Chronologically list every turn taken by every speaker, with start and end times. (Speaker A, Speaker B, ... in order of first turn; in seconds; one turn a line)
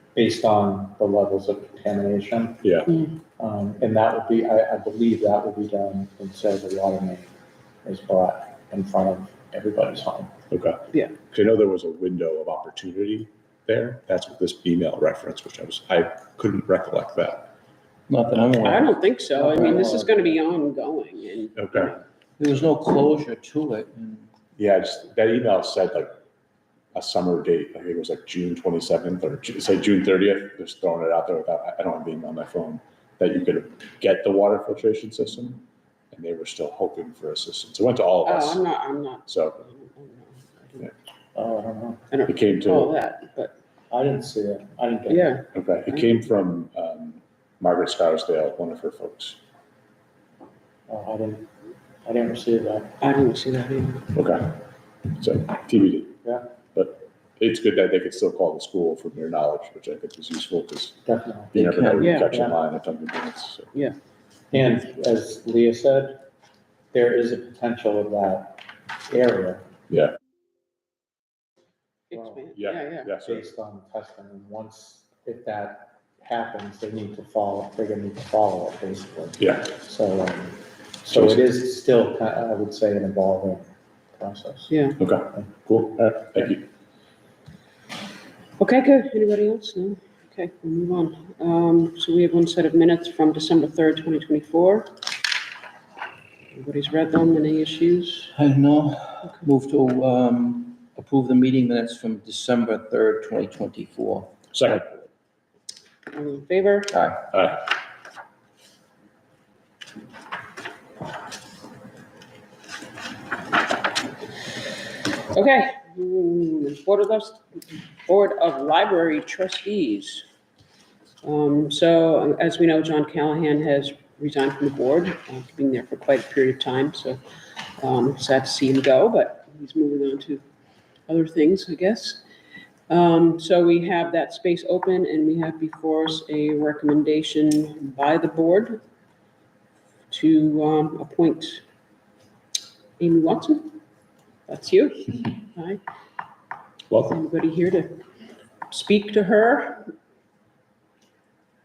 Speaker A: 0.1-2.8
Speaker B: 2.6-2.9
Speaker A: 3.4-7.3
Speaker A: 7.8-10.3
Speaker B: 10.5-17.5
Speaker C: 18.1-19.0
Speaker D: 18.6-22.0
Speaker A: 19.3-20.3
Speaker B: 21.6-21.9
Speaker C: 22.4-24.3
Speaker B: 24.6-26.1
Speaker B: 26.9-38.6
Speaker D: 38.2-40.9
Speaker B: 39.3-39.6
Speaker A: 41.3-42.0
Speaker D: 42.1-43.5
Speaker B: 42.3-42.9
Speaker A: 43.9-45.4
Speaker D: 45.1-46.2
Speaker B: 45.5-49.4
Speaker A: 50.9-51.5
Speaker A: 52.0-53.0
Speaker D: 53.0-54.1
Speaker B: 54.1-54.6
Speaker B: 55.1-56.2
Speaker B: 56.7-61.0
Speaker A: 61.0-61.6
Speaker B: 61.5-63.7
Speaker C: 61.6-62.2
Speaker D: 62.0-62.3
Speaker A: 62.3-62.6
Speaker A: 64.5-66.2
Speaker A: 66.9-69.7
Speaker B: 69.9-70.1
Speaker A: 72.1-72.4
Speaker D: 72.1-73.1
Speaker B: 72.5-73.5
Speaker A: 73.2-84.7
Speaker B: 79.4-79.7
Speaker B: 81.1-81.4
Speaker D: 84.7-85.0
Speaker B: 85.0-86.7
Speaker D: 88.6-94.9
Speaker D: 96.5-98.3
Speaker C: 98.3-104.4
Speaker B: 104.5-105.0
Speaker D: 106.1-107.0
Speaker C: 106.9-107.2
Speaker B: 107.3-107.7
Speaker D: 115.3-120.2
Speaker D: 121.2-127.2
Speaker D: 127.8-130.4
Speaker D: 131.1-132.2
Speaker D: 132.9-138.8
Speaker D: 140.1-141.6
Speaker D: 143.0-143.8
Speaker D: 144.5-145.8
Speaker B: 146.9-147.2
Speaker D: 147.1-148.0
Speaker D: 148.7-149.9